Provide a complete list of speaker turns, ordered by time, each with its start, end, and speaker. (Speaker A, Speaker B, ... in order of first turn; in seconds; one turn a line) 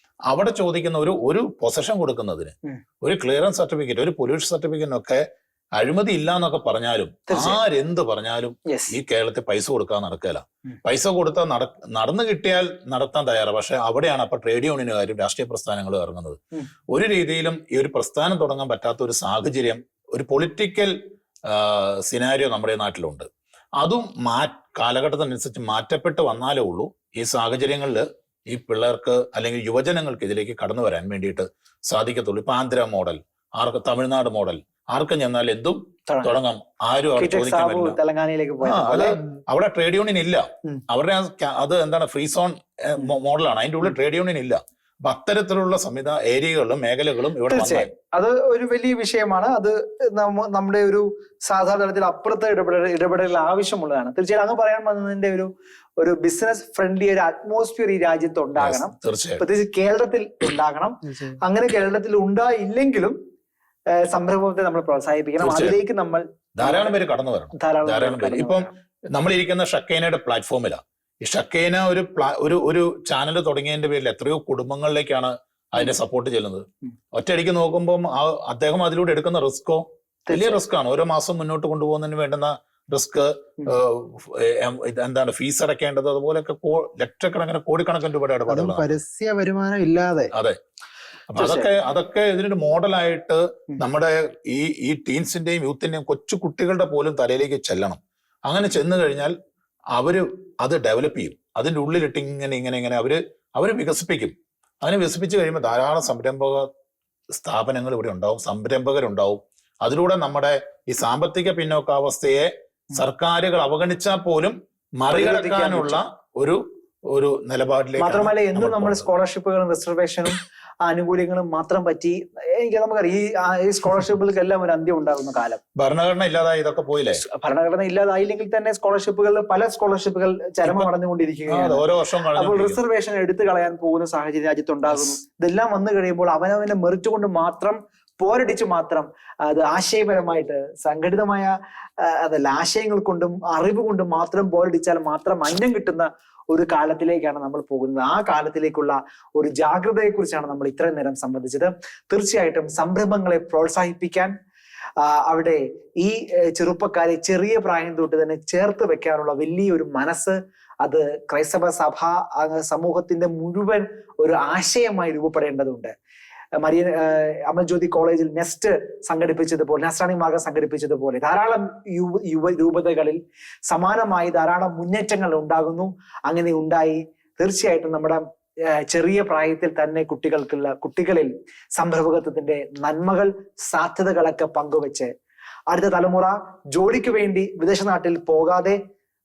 Speaker A: 0.3-5.2
Speaker A: 5.8-20.9
Speaker B: 7.3-7.6
Speaker B: 8.7-8.9
Speaker A: 21.4-23.3
Speaker A: 23.8-38.0
Speaker B: 36.1-36.3
Speaker B: 37.2-39.2
Speaker A: 38.6-47.9
Speaker B: 47.5-63.2
Speaker A: 58.6-59.4
Speaker C: 61.1-61.4
Speaker B: 63.9-66.9
Speaker A: 65.4-65.8
Speaker A: 66.6-88.9
Speaker B: 67.5-68.7
Speaker B: 80.3-80.6
Speaker C: 88.5-90.3
Speaker A: 90.3-90.6
Speaker A: 91.3-99.3
Speaker B: 91.4-91.7
Speaker A: 99.9-106.7
Speaker A: 107.3-119.1
Speaker B: 115.1-116.0
Speaker B: 118.0-125.6
Speaker A: 125.8-127.2
Speaker B: 127.2-154.3
Speaker A: 131.5-132.8
Speaker B: 155.0-165.9
Speaker B: 166.6-185.1
Speaker B: 185.7-188.8